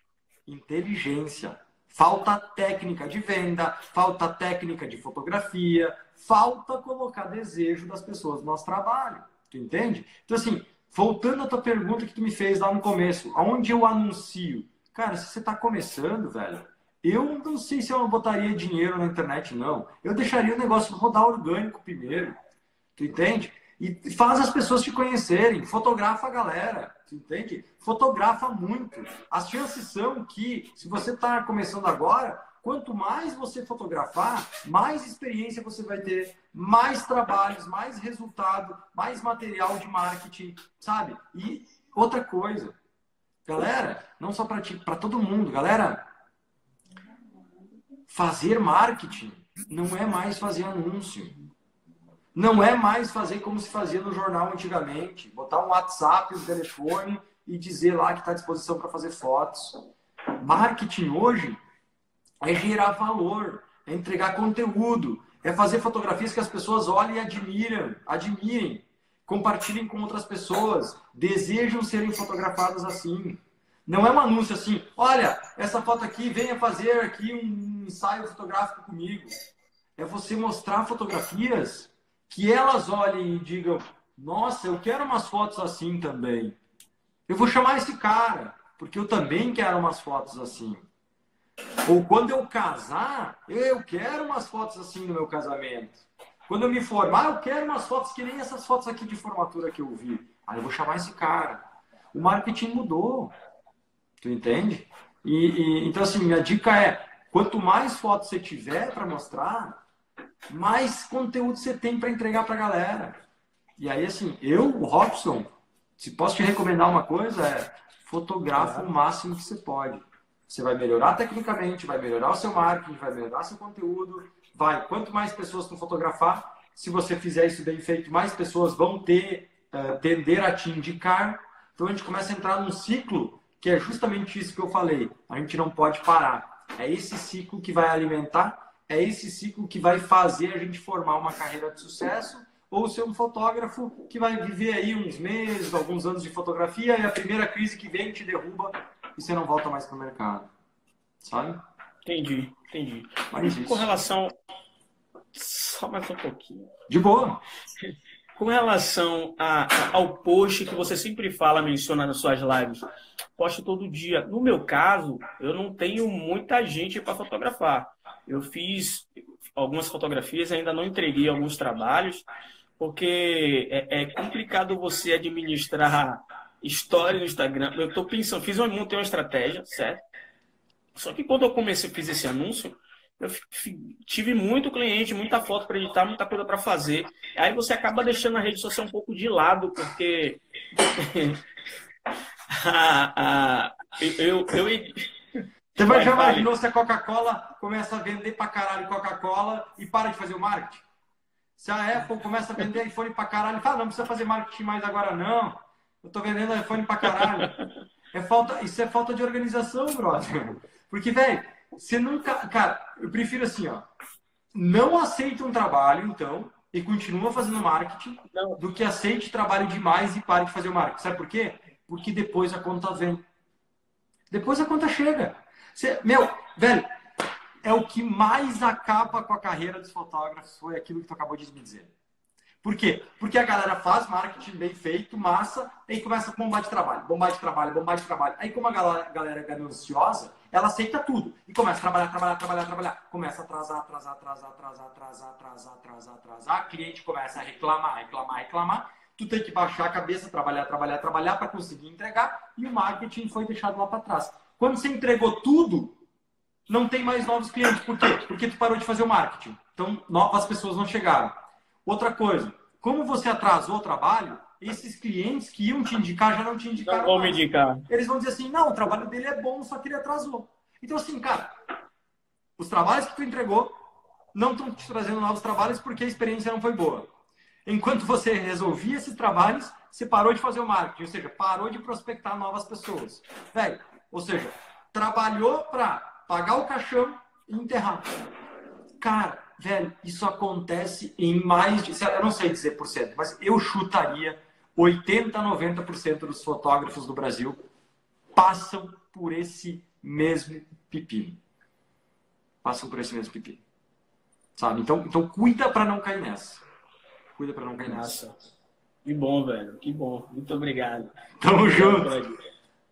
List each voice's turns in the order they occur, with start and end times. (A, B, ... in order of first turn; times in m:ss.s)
0:00.5-0:22.4 A
0:23.0-0:42.8 A
0:43.5-0:46.0 A
0:48.1-0:51.3 A
0:52.4-0:59.8 A
1:00.4-1:01.6 A
1:02.4-1:19.3 A
1:20.0-1:26.6 A
1:27.3-1:30.9 A
1:31.9-1:43.3 A
1:44.2-1:49.8 A
1:50.5-1:53.2 A
1:53.8-1:55.5 A
1:56.0-2:30.5 A
1:58.6-1:58.9 B
2:31.2-2:31.6 A
2:32.0-2:34.4 B
2:33.3-2:33.9 A
2:35.3-2:36.7 B
2:36.9-2:37.4 A
2:38.4-2:42.9 B
2:43.4-2:52.2 B
2:52.8-3:00.0 B
3:01.0-3:10.4 B
3:10.9-3:11.4 B
3:12.5-3:15.1 B
3:15.8-3:16.5 B
3:15.8-3:20.8 A
3:21.6-3:27.6 A
3:28.1-3:33.9 A
3:34.5-3:43.2 A
3:38.3-3:38.6 B
3:44.3-3:46.9 A
3:47.6-3:51.9 A
3:52.6-4:16.0 A
4:16.7-4:31.6 A
4:26.8-4:27.9 B
4:32.6-4:33.7 A
4:34.3-4:37.1 A
4:37.7-4:48.1 A
4:49.0-4:57.6 A
4:58.3-5:01.4 A
5:02.6-5:03.6 A
5:04.6-5:06.6 A
5:07.4-5:08.1 A
5:07.9-5:08.4 B
5:09.0-5:11.1 B
5:11.4-5:12.1 A
5:11.7-5:12.4 B